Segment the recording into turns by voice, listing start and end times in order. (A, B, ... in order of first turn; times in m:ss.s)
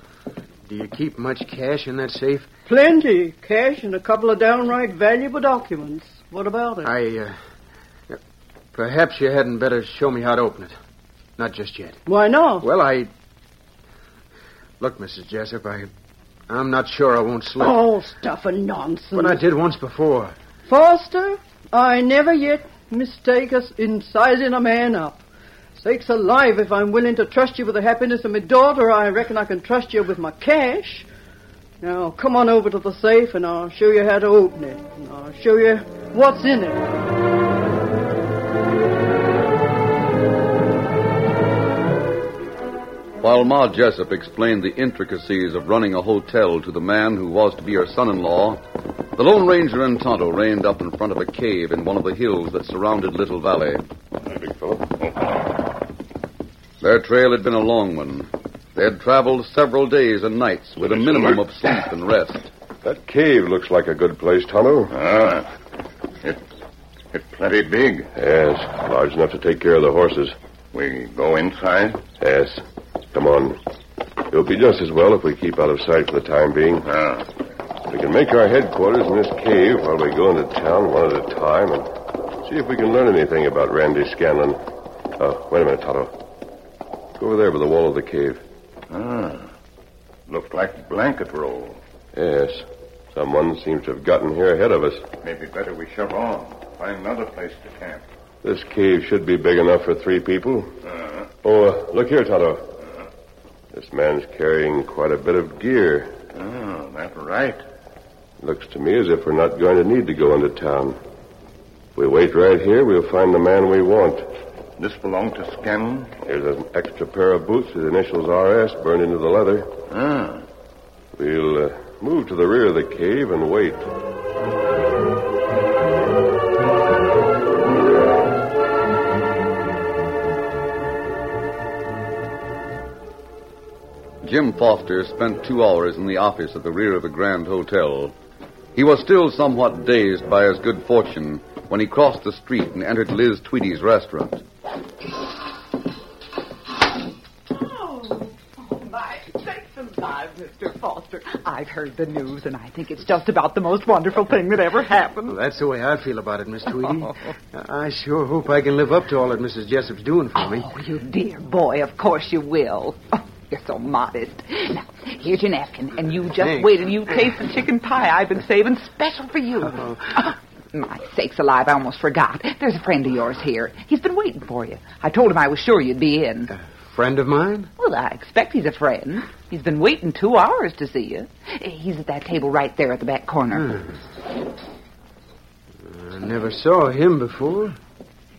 0:00.7-0:02.5 A
0:02.6-0:06.9 B
0:06.8-0:07.4 A
0:08.7-0:10.8 A
0:11.4-0:12.0 A
0:12.0-0:12.6 B
0:12.6-0:13.1 A
0:14.8-0:15.9 A
0:16.5-0:17.8 A
0:17.6-0:19.4 B
0:19.1-0:20.3 A
0:20.7-0:25.2 B
0:25.8-0:31.1 B
0:31.8-0:36.8 B
0:43.2-0:48.6 C
0:49.2-0:53.8 C
0:54.2-0:54.8 D
0:56.8-1:02.5 C
1:00.8-1:01.8 E
1:02.8-1:04.9 D
1:04.9-1:05.5 E
1:07.1-1:08.1 E
1:08.2-1:10.3 D
1:10.7-1:12.0 E
1:12.2-1:13.6 D
1:14.3-1:16.8 D
1:16.8-1:17.2 E
1:17.9-1:21.9 D
1:22.4-1:24.6 D
1:25.2-1:26.1 D
1:27.2-1:28.4 D
1:28.9-1:29.5 E
1:30.3-1:31.8 E
1:32.1-1:35.1 D
1:35.2-1:38.0 E
1:38.4-1:40.7 D
1:40.8-1:41.3 E
1:41.4-1:42.7 D
1:43.7-1:46.2 D
1:46.3-1:47.6 E
1:48.4-1:51.0 D
1:51.9-1:54.3 D
1:54.8-1:56.1 E
1:56.2-1:59.7 D
1:59.9-2:00.4 E
2:01.1-2:03.9 D
2:14.2-2:18.2 C
2:18.7-2:24.4 C
2:27.5-2:35.4 F
2:35.3-2:40.7 A
2:36.8-2:37.3 F
2:40.4-2:56.5 F
2:46.4-2:46.7 A
2:56.5-2:57.7 A
2:57.8-3:03.8 F
3:03.5-3:03.9 A
3:05.8-3:07.8 A